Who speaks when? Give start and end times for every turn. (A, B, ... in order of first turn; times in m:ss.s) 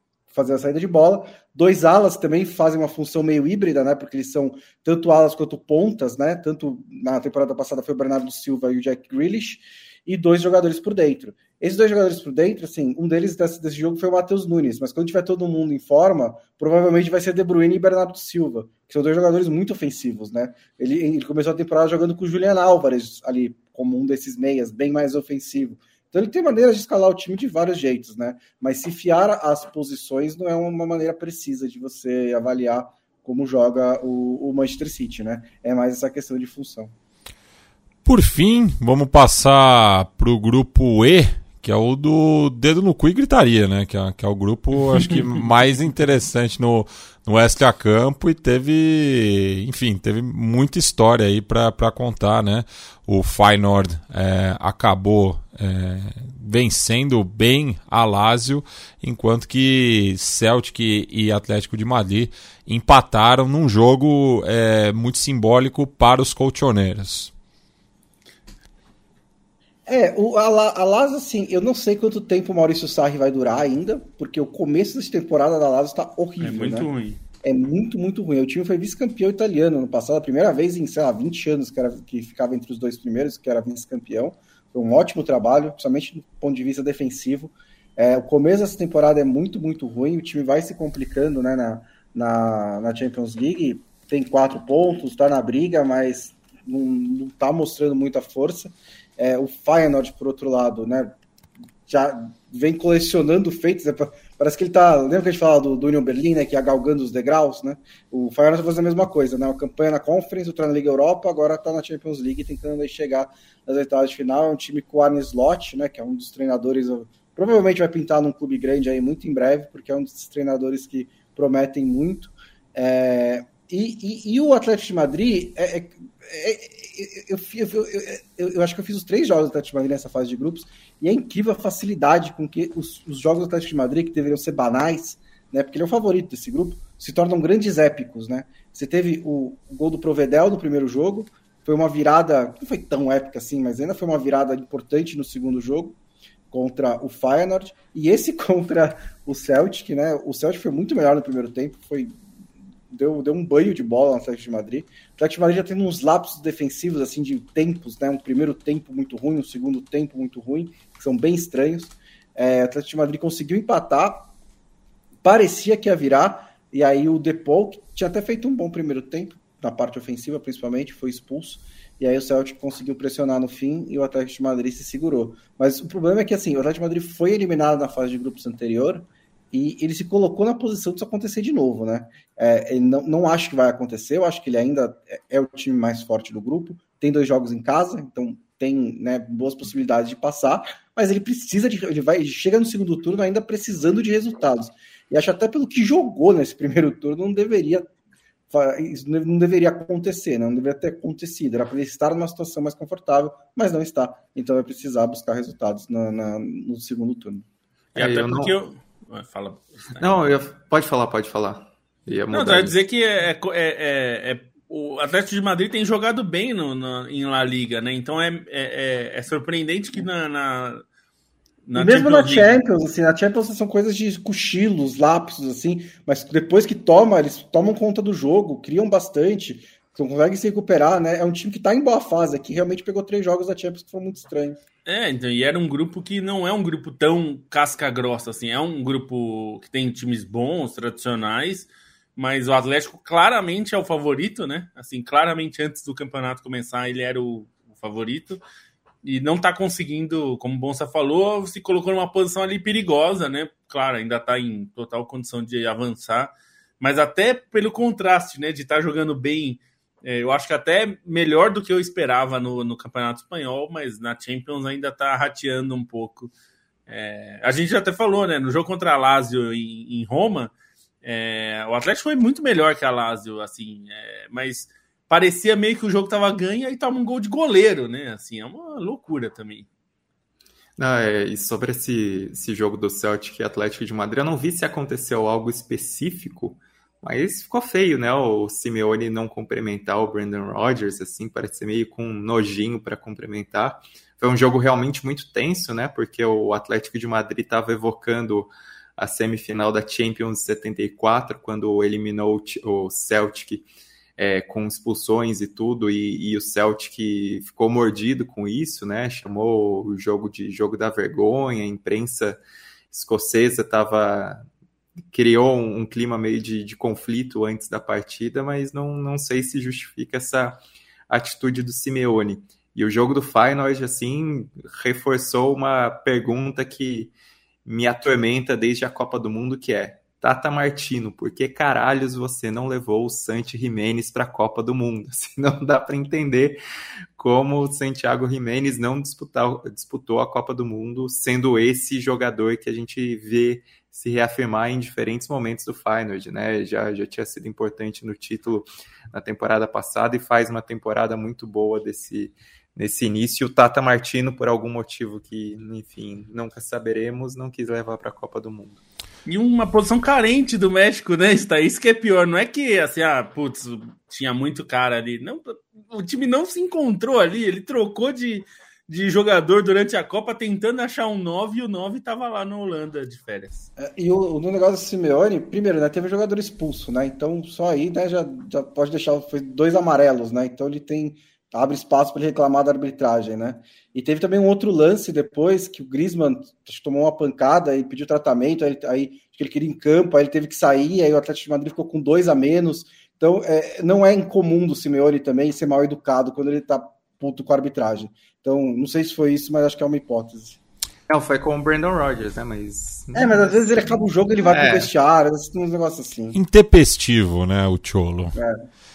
0:00.3-0:36.9 A
0:38.0-1:07.3 B
1:09.9-1:16.9 A
1:16.4-1:17.2 C
1:17.4-1:41.1 A
1:41.9-2:26.0 A
2:26.5-2:32.1 A
2:32.9-2:44.3 A
2:45.2-3:17.9 A
3:18.5-3:27.4 A
3:27.9-3:30.2 C
3:28.0-3:28.5 D
3:30.0-3:32.8 D
3:32.3-3:40.8 C
3:41.6-3:42.6 C
3:41.7-3:54.6 A
3:54.8-4:08.4 C
4:09.0-4:26.3 C
4:26.9-4:39.7 C
4:40.8-5:12.4 D
5:12.9-5:14.4 D
5:15.1-5:27.1 D
5:27.6-5:36.6 D
5:37.2-5:58.8 D
5:59.2-6:13.7 C
6:13.8-6:40.6 A
6:41.1-6:44.9 D
6:43.1-6:46.4 A
6:46.3-6:48.4 B